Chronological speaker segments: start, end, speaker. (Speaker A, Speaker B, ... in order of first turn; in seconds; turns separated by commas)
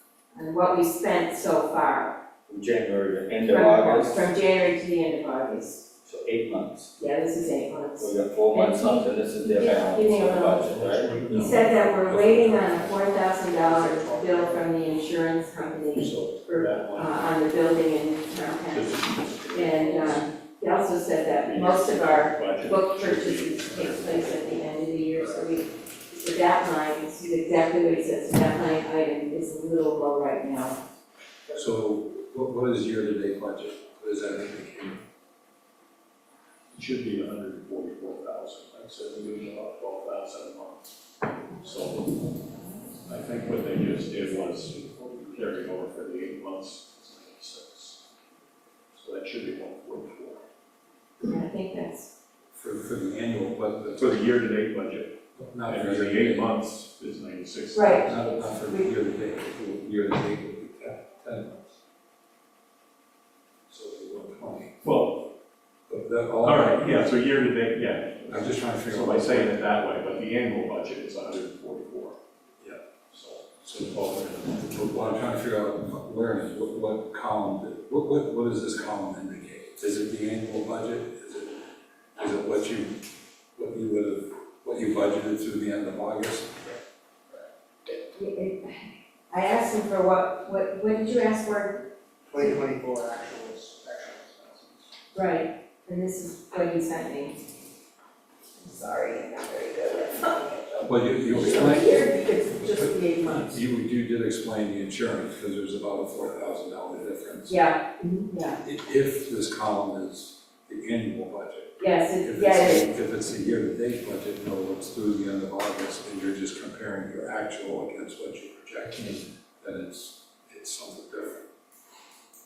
Speaker A: 0.3-2.2, Speaker B: 2.5-4.3, Speaker A: 3.5-5.9, Speaker B: 6.0-6.9, Speaker A: 7.0-18.9, Speaker B: 8.0-11.2, Speaker C: 10.4-13.1, Speaker C: 13.7-14.4, Speaker C: 16.0-16.4, Speaker D: 16.5-17.2, Speaker D: 18.7-20.4, Speaker A: 19.5-30.8, Speaker D: 21.4-24.7, Speaker C: 31.5-35.0, Speaker D: 36.7-42.2, Speaker D: 43.0-48.0, Speaker D: 48.9-50.4, Speaker A: 51.2-52.1, Speaker C: 52.5-54.1, Speaker D: 54.0-55.1, Speaker C: 55.3-56.5, Speaker D: 55.6-58.1, Speaker A: 57.7-58.9, Speaker C: 58.0-61.6, Speaker C: 63.7-64.8, Speaker D: 64.8-65.3, Speaker C: 65.9-67.1, Speaker D: 66.4-72.2, Speaker C: 68.3-69.6, Speaker D: 73.1-75.3, Speaker C: 73.6-81.6, Speaker C: 82.2-83.0, Speaker C: 83.5-86.6, Speaker A: 88.1-92.6, Speaker E: 92.3-94.8, Speaker A: 95.1-97.4, Speaker A: 98.6-103.6, Speaker C: 100.8-107.6, Speaker A: 107.5-108.6, Speaker C: 108.6-121.5, Speaker A: 111.8-112.9